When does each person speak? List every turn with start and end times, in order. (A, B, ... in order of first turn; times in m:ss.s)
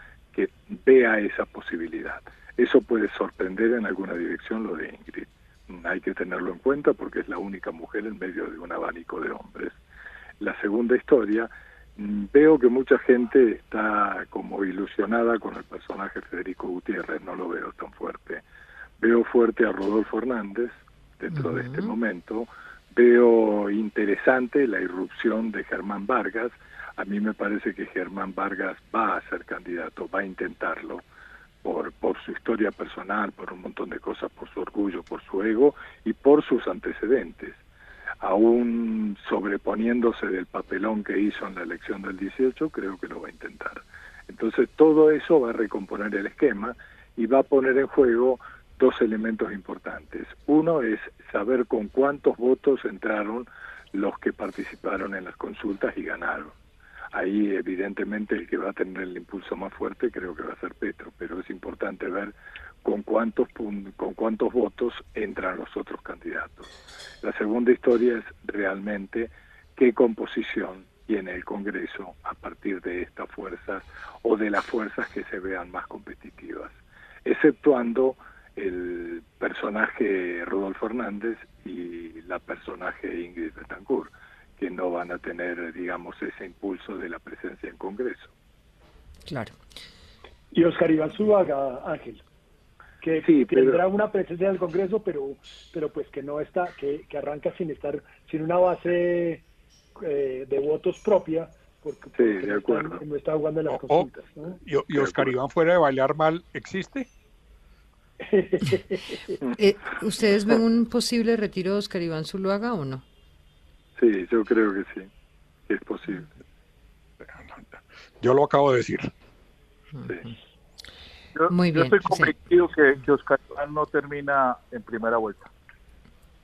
0:00.3-0:09.8 A
0:10.4-0:18.4 A
0:19.0-0:31.0 A
0:21.3-0:21.9 B
0:31.6-0:37.6 A
0:38.2-0:56.5 A
0:57.1-1:06.7 A
1:07.2-1:16.7 A
1:17.2-1:28.3 A
1:29.3-1:29.6 B
1:30.5-1:32.2 C
1:33.0-1:39.4 C
1:33.2-1:33.8 A
1:40.0-1:44.6 C
1:42.2-1:43.0 A
1:43.7-1:47.1 D
1:45.0-1:45.3 A
1:48.2-1:49.3 C
1:49.6-1:53.0 B
1:54.0-1:55.1 A
1:55.7-1:56.3 A
1:57.3-1:59.1 D
1:59.9-2:00.3 B
2:01.3-2:05.5 E
2:01.5-2:02.3 B